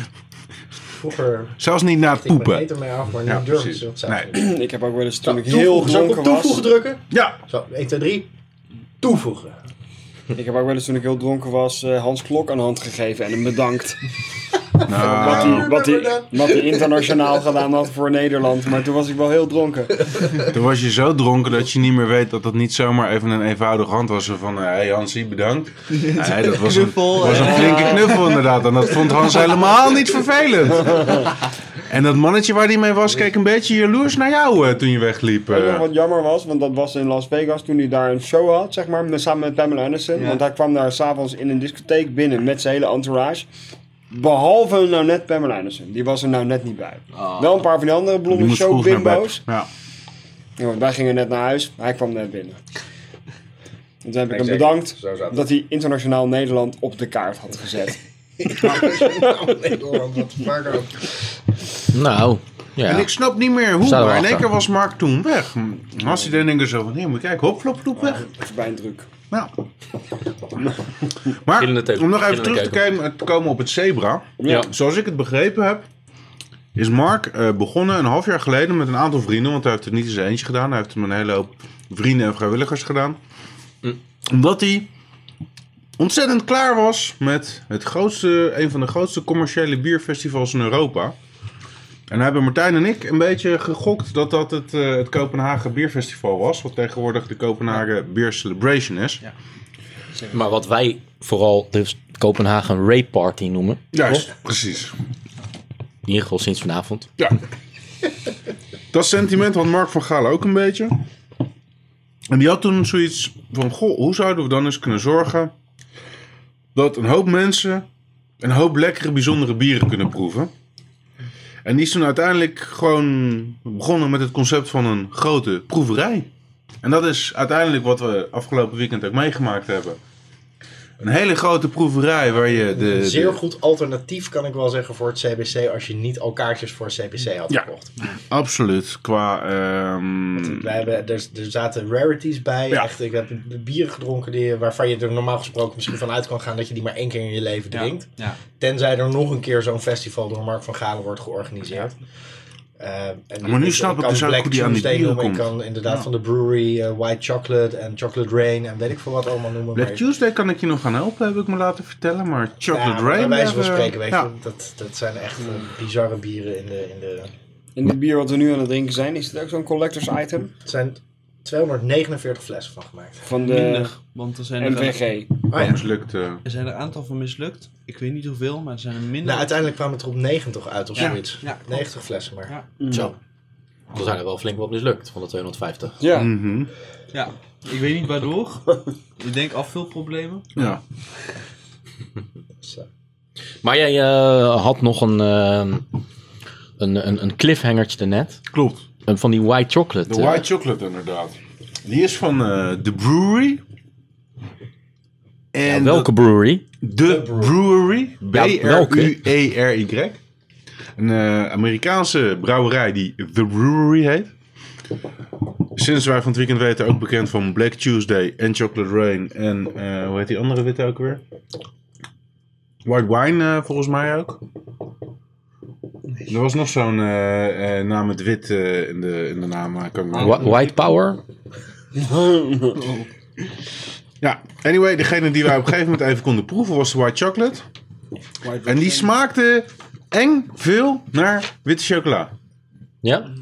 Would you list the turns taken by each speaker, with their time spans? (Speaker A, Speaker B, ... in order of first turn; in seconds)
Speaker A: 0.9-4.5, 5.2-8.3, 9.0-9.6, 14.9-16.9, 54.3-55.4, 58.5-61.1, 132.6-138.0, 140.3-148.1, 148.6-152.0, 152.8-160.0, 162.7-167.3, 170.7-173.2, 175.5-175.8, 179.2-183.1, 192.6-192.9, 207.0-207.5
Speaker B: 1.6-2.7, 3.2-4.3, 7.1-7.4, 14.9-15.8, 20.5-31.3, 31.9-35.9, 48.3-49.7, 62.8-68.3, 71.4-75.9, 76.8-83.2, 84.3-84.9, 86.0-91.2, 92.1-99.2, 103.9-104.9, 108.9-111.0, 112.3-115.5, 116.8-117.9, 118.4-120.5, 121.7-126.3, 126.8-130.0, 131.0-133.4, 138.3-140.8, 153.4-156.1, 159.7-164.3, 175.6-176.4, 186.1-186.7, 190.6-190.8, 198.5-198.8, 200.1-203.6, 205.5-206.2, 206.8-210.2, 211.0-214.3, 215.8-221.2, 222.8-224.4, 226.3-230.6, 234.2-237.7, 238.7-242.3
Speaker C: 4.3-6.7, 10.3-14.0, 15.0-20.2, 27.2-28.3, 30.8-31.3, 35.5-43.5, 44.1-49.4, 50.6-52.6, 54.0-59.7, 68.0-69.1, 74.4-74.7, 167.8-170.5, 173.2-173.9, 174.6-175.3, 182.8-183.1, 186.0-186.3, 231.9-232.8, 238.4-239.1
Speaker D: 25.9-28.4, 40.2-40.4, 47.2-47.5, 147.7-148.4, 173.4-175.6, 176.4-179.5, 180.9-181.9, 187.1-190.6, 230.1-231.0, 232.8-233.1
Speaker E: 61.9-63.1, 63.8-64.5, 71.5-72.8, 100.3-104.3, 106.1-107.1, 183.9-186.0, 193.6-195.9, 196.8-198.4, 199.1-200.5, 205.6-206.6, 208.3-209.2, 230.2-231.2, 243.0-243.3